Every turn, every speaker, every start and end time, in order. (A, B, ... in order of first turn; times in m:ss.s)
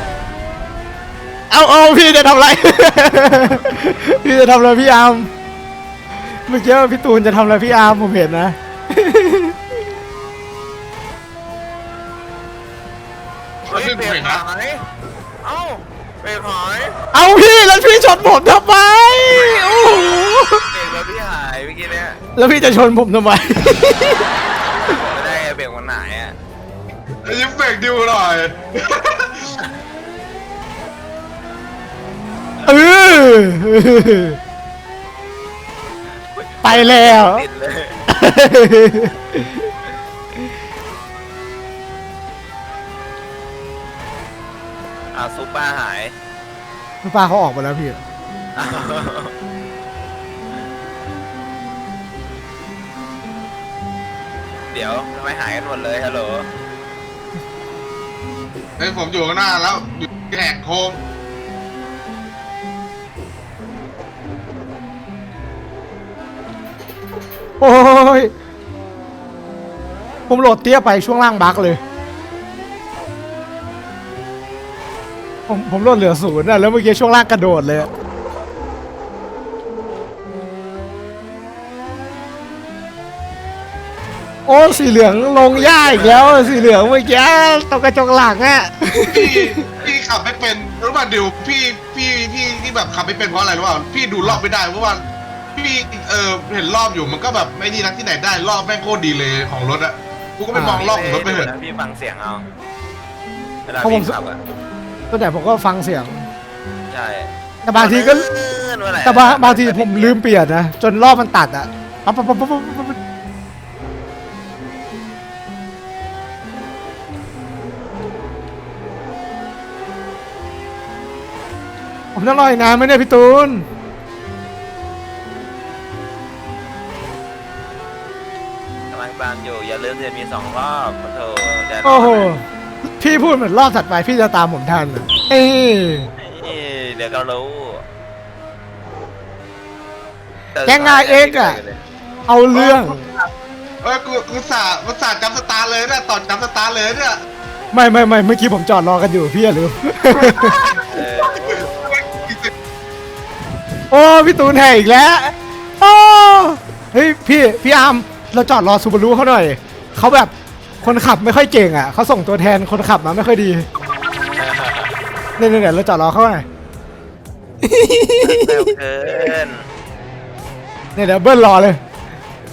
0:01.5-0:05.3 A
0:06.5-0:09.6 A
0:13.6-0:14.4 B
0:13.7-0:14.8 C
0:15.4-0:17.0 C
0:17.1-0:20.6 A
0:19.3-0:20.1 C
0:20.7-0:22.2 C
0:22.4-0:24.3 A
0:24.8-0:26.4 C
0:27.2-0:29.5 B
0:32.6-0:34.4 A
0:36.3-0:38.0 C
0:36.6-0:37.4 A
0:38.1-0:39.7 A
0:45.1-0:46.1 C
0:47.0-0:48.0 A
0:48.6-0:49.3 C
0:54.7-0:56.5 C
0:58.8-1:01.0 B
1:07.6-1:08.3 A
1:10.3-1:11.8 A
1:15.5-1:17.9 A
1:24.4-1:29.6 A
1:24.6-1:26.9 C
1:29.0-1:35.0 B
1:35.5-1:41.5 B
1:40.5-1:40.8 A
1:40.7-1:42.4 C
1:43.7-1:44.4 C
1:43.8-1:44.1 A
1:45.1-1:46.3 A
1:46.9-1:50.2 C
1:47.6-1:48.2 A
1:49.0-1:53.0 A
2:02.1-2:03.6 A
2:08.9-2:12.3 C
2:11.8-2:12.4 A
2:13.0-2:16.1 A
2:16.2-2:17.8 C
2:20.5-2:21.8 C
2:20.6-2:21.6 A
2:22.3-2:23.0 A
2:22.5-2:23.3 B
2:23.8-2:27.2 B
2:27.7-2:30.8 A
2:30.2-2:32.5 B
2:30.7-2:32.3 C
2:33.9-2:43.7 A
2:44.3-2:44.9 C
2:45.4-2:46.4 A
2:47.6-2:48.6 A
2:48.2-2:49.6 C
2:50.9-2:51.8 A